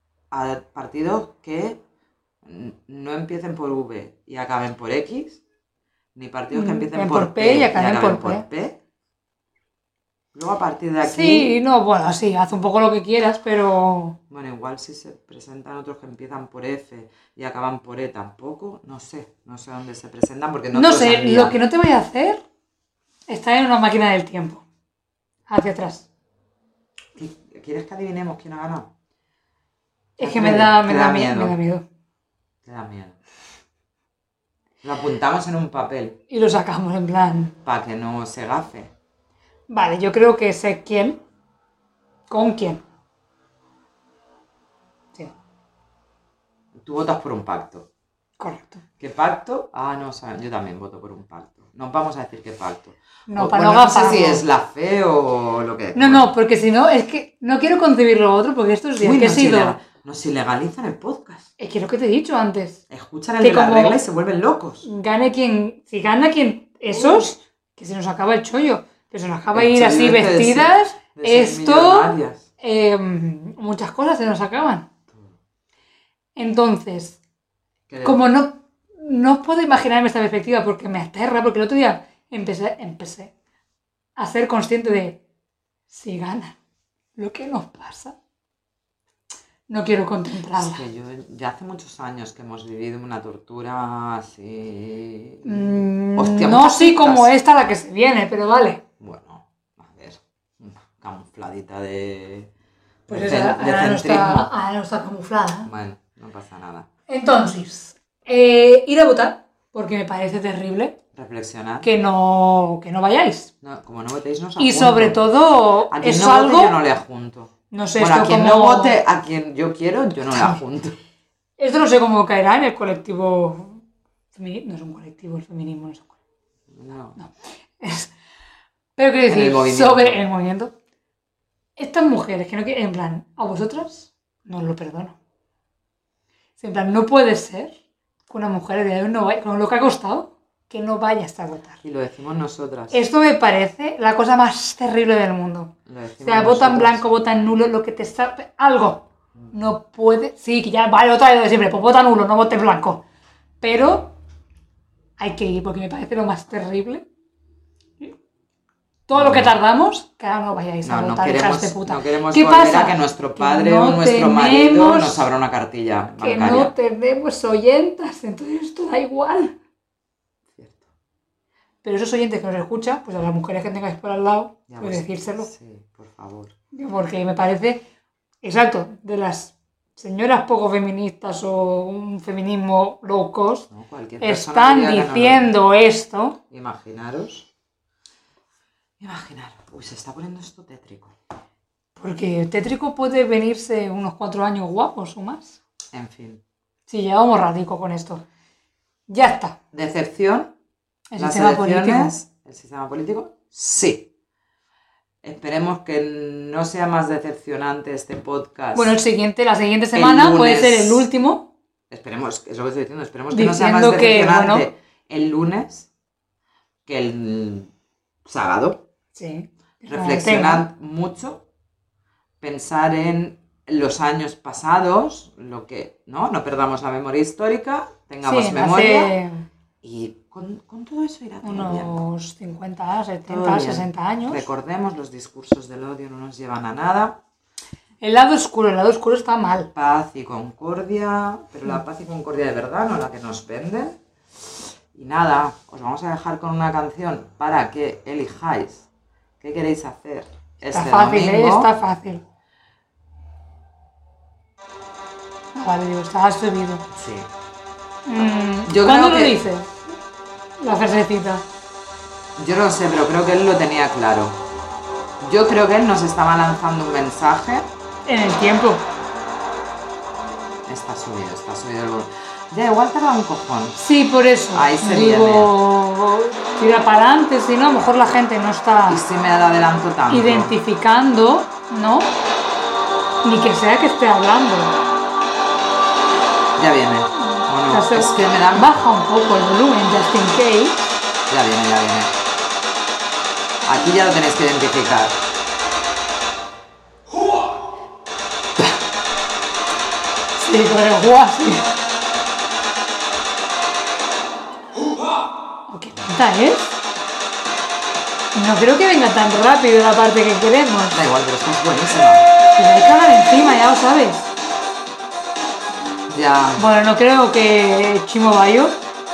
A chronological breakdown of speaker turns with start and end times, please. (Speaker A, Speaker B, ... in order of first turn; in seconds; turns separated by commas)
Speaker A: 0.3-1.8, Speaker A: 2.4-5.4, Speaker A: 6.1-8.8, Speaker B: 6.5-8.4, Speaker A: 10.3-11.5, Speaker B: 11.0-14.2, Speaker A: 14.3-21.6, Speaker B: 20.7-22.4, Speaker B: 23.3-24.6, Speaker B: 25.5-26.1, Speaker A: 27.1-28.9, Speaker B: 30.2-31.8, Speaker A: 30.2-31.6, Speaker A: 32.6-33.2, Speaker A: 34.8-36.2, Speaker B: 36.3-37.5, Speaker A: 37.6-38.9, Speaker B: 39.7-41.2, Speaker B: 42.3-42.8, Speaker A: 46.8-47.9, Speaker B: 48.4-48.8, Speaker A: 49.0-56.3, Speaker B: 53.3-54.4, Speaker B: 55.9-59.8, Speaker A: 59.0-61.5, Speaker B: 61.6-62.8, Speaker A: 62.9-64.8, Speaker B: 63.4-64.0, Speaker B: 64.8-74.9, Speaker A: 66.9-67.3, Speaker A: 69.5-72.5, Speaker B: 76.3-77.2, Speaker A: 77.9-78.2, Speaker B: 78.0-83.3, Speaker B: 84.2-85.2, Speaker B: 85.9-86.5, Speaker B: 87.2-88.2, Speaker B: 89.7-90.8, Speaker A: 90.5-97.3, Speaker B: 95.4-98.8, Speaker A: 99.0-102.5, Speaker A: 103.1-104.5, Speaker B: 103.1-105.7, Speaker A: 105.7-106.9, Speaker B: 107.1-111.0, Speaker A: 111.1-111.9, Speaker B: 111.8-113.5, Speaker A: 113.6-115.2, Speaker B: 114.6-116.8, Speaker A: 115.9-121.0, Speaker B: 117.7-119.0, Speaker B: 120.3-120.6, Speaker B: 121.6-126.2, Speaker A: 126.7-127.2, Speaker B: 127.2-128.1, Speaker B: 128.9-130.7, Speaker A: 129.3-130.2, Speaker B: 131.8-135.2, Speaker B: 136.6-141.8, Speaker A: 141.8-143.0, Speaker B: 142.9-153.0, Speaker A: 145.8-147.0, Speaker B: 153.6-154.2, Speaker B: 155.2-157.0, Speaker B: 159.1-165.3, Speaker A: 159.1-159.6, Speaker A: 160.8-166.7, Speaker B: 166.2-169.6, Speaker A: 170.5-170.9, Speaker B: 171.8-175.5, Speaker A: 174.7-176.5, Speaker B: 176.7-177.8, Speaker B: 178.4-183.7, Speaker A: 183.7-185.5, Speaker B: 184.2-186.4, Speaker A: 186.5-187.5, Speaker A: 189.0-191.1, Speaker B: 191.9-195.6, Speaker A: 195.9-196.4, Speaker B: 196.9-198.2, Speaker B: 199.1-199.6, Speaker A: 199.7-200.5, Speaker B: 201.1-202.1, Speaker A: 201.2-204.1, Speaker A: 205.2-208.9, Speaker B: 208.7-211.5, Speaker A: 209.9-211.1, Speaker A: 211.9-215.9, Speaker B: 213.3-214.7, Speaker A: 216.8-217.7, Speaker A: 218.2-218.8, Speaker B: 219.1-220.7, Speaker A: 219.9-221.4, Speaker A: 222.4-229.1, Speaker B: 228.2-229.4, Speaker A: 229.8-232.0, Speaker B: 231.4-234.4, Speaker A: 233.3-237.2, Speaker B: 238.0-239.7, Speaker A: 239.7-244.0, Speaker A: 244.9-248.9, Speaker A: 249.4-251.7, Speaker B: 250.6-252.2, Speaker B: 255.5-256.9, Speaker A: 256.9-257.3, Speaker B: 258.1-259.8, Speaker A: 258.6-259.5, Speaker B: 260.6-261.4, Speaker A: 262.4-264.4, Speaker A: 265.2-267.7, Speaker B: 268.1-268.8, Speaker A: 270.7-273.8, Speaker B: 273.8-279.0, Speaker A: 274.5-275.5, Speaker A: 278.9-280.5, Speaker B: 280.1-282.1, Speaker B: 283.2-284.7, Speaker A: 286.6-288.8, Speaker B: 287.3-290.9, Speaker A: 291.3-292.1, Speaker A: 293.6-295.1, Speaker B: 300.4-301.7, Speaker B: 305.7-306.7, Speaker B: 308.3-311.0, Speaker A: 310.9-312.2, Speaker B: 312.5-314.3, Speaker A: 316.1-316.6, Speaker B: 316.6-318.8